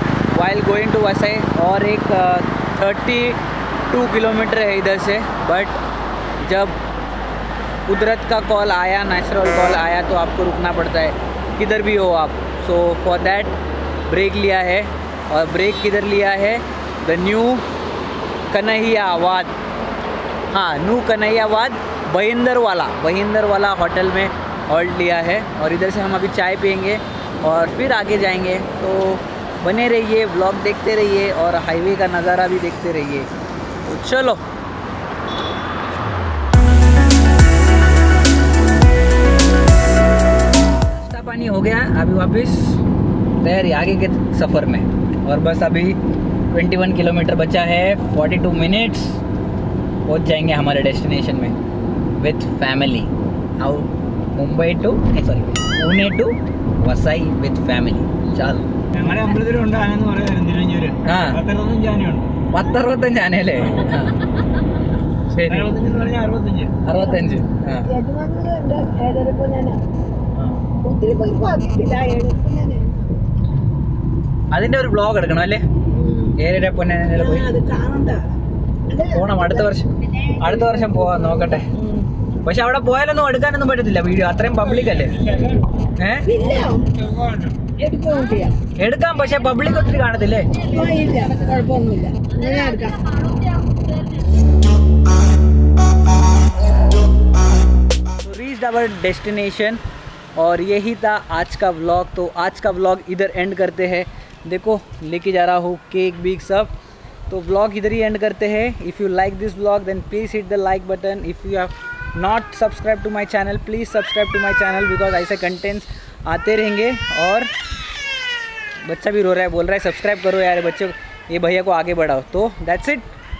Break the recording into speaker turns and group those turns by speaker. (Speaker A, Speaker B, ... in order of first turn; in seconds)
Speaker A: 0.3-5.8, 6.4-6.8, 7.9-13.5, 14.1-17.6, 18.5-19.5, 20.5-33.3, 33.8-34.4, 40.9-42.8, 43.4-46.0, 46.5-49.2, 50.0-51.5, 52.2-58.6, 61.0-61.4, 62.5-64.2, 65.3-65.7, 66.8-67.9, 70.3-70.6, 74.5-75.6, 76.4-77.5, 79.1-81.7, 82.4-85.3, 86.0-86.3, 88.8-90.5, 98.2-99.8, 100.3-106.7, 107.3-117.5, 118.8-123.1
Speaker B: 58.9-62.3, 65.5-66.8
Speaker C: 67.0-67.3, 67.8-69.8, 70.8-73.2, 75.9-76.4, 77.1-78.2, 78.9-79.7, 80.4-81.0, 81.7-82.1, 86.2-86.9, 87.8-88.5, 90.6-93.3